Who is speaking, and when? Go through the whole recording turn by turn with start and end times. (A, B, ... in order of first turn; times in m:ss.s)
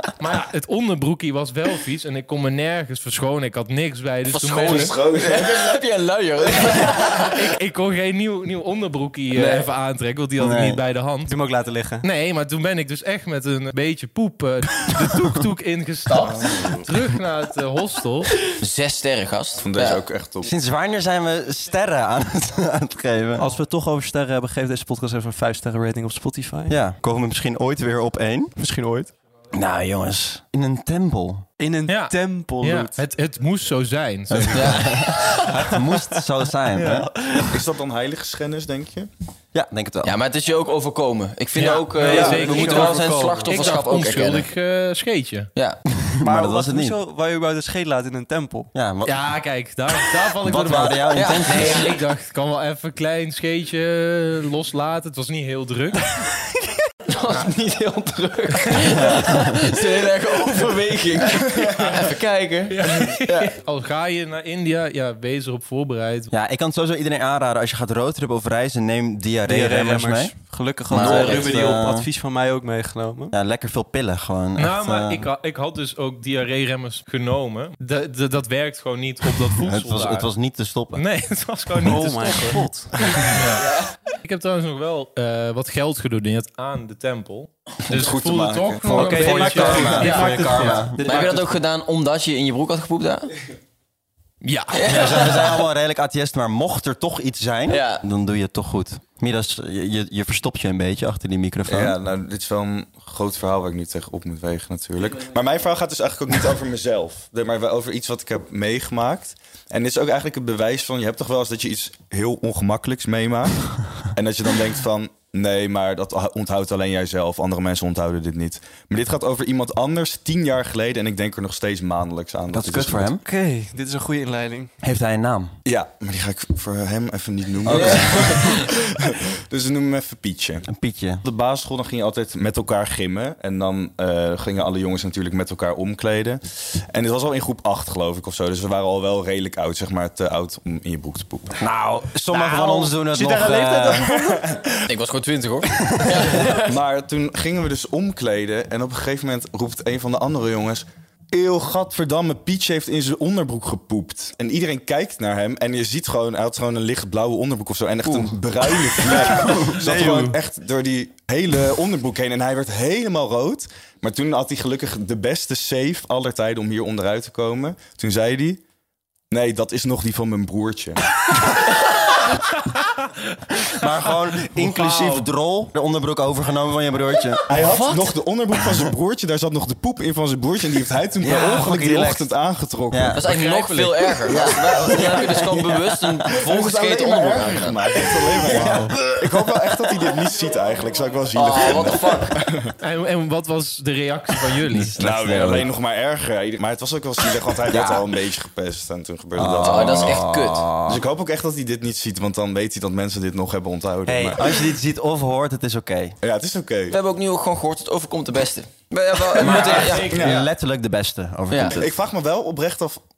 0:00.2-0:05.0 A
0:04.3-0:07.4 B
0:04.6-0:05.8 C
0:07.1-0:11.4 A
0:09.3-0:09.7 B
0:10.4-0:10.8 D
0:11.3-0:12.0 E
0:12.0-0:18.4 A
0:16.2-0:16.9 C
0:18.6-0:20.0 B
0:19.6-0:20.5 C
0:20.4-0:23.5 D
0:23.4-0:26.8 E
0:26.7-0:28.6 D
0:28.6-0:29.1 E
0:29.5-0:31.5 D
0:31.6-0:33.0 E
0:31.9-0:35.0 A
0:34.3-0:37.1 D
0:34.5-0:35.8 B
0:36.7-0:37.5 E
0:37.4-0:39.1 C
0:39.5-0:40.2 D
0:40.0-0:44.5 B
0:41.6-0:45.5 A
0:42.0-0:43.6 E
0:45.6-0:45.8 B
0:45.9-0:47.0 D
0:46.2-0:48.7 E
0:48.7-0:49.3 D
0:49.0-0:56.2 A
0:50.4-0:51.9 D
0:51.1-0:52.0 B
0:57.1-1:03.5 B
0:58.6-0:59.0 A
0:58.8-0:59.7 D
1:01.3-1:02.0 C
1:02.7-1:06.3 A
1:06.3-1:10.4 D
1:09.5-1:13.4 E
1:10.9-1:12.1 D
1:10.9-1:11.6 B
1:13.3-1:15.3 D
1:14.6-1:20.3 A
1:19.6-1:21.0 D
1:21.0-1:22.6 A
1:21.8-1:23.3 E
1:23.2-1:30.8 A
1:27.9-1:29.2 C
1:28.8-1:31.5 E
1:28.9-1:31.5 D
1:31.0-1:33.3 B
1:34.4-1:35.2 A
1:34.7-1:35.6 B
1:34.8-1:42.0 D
1:37.7-1:38.0 B
1:41.7-2:03.1 C
2:02.5-2:03.2 D
2:03.2-2:04.7 E
2:04.8-2:05.5 D
2:05.6-2:10.7 C
2:07.6-2:08.6 D
2:07.7-2:08.6 B
2:10.7-2:11.2 D
2:11.2-2:21.6 C
2:21.6-2:24.2 D
2:22.3-2:24.8 E
2:24.8-2:26.7 B
2:26.4-2:48.6 C
2:38.0-2:38.3 D
2:39.1-2:40.4 E
2:39.2-2:39.7 D
2:49.3-2:51.5 C
2:53.6-2:57.4 D
2:54.5-2:55.3 A
2:57.5-3:03.2 C
2:57.7-2:58.1 B
3:01.2-3:02.3 D
3:02.9-3:03.2 D
3:03.2-3:08.0 B
3:03.2-3:04.2 A
3:04.2-3:06.3 D
3:04.4-3:05.2 C
3:06.3-3:12.7 C
3:08.5-3:09.0 A
3:08.5-3:09.7 D
3:11.4-3:12.4 B
3:12.8-3:15.0 A
3:14.7-3:15.7 D
3:15.0-3:20.2 C
3:17.7-3:18.1 D
3:19.4-3:21.0 D
3:19.6-3:20.7 B
3:20.9-3:24.7 C
3:24.1-3:26.2 D
3:26.2-3:27.0 C
3:26.9-3:30.3 B
3:29.3-3:31.9 D
3:29.4-3:30.4 A
3:30.1-3:30.5 C
3:31.5-3:31.8 B
3:31.6-3:33.0 C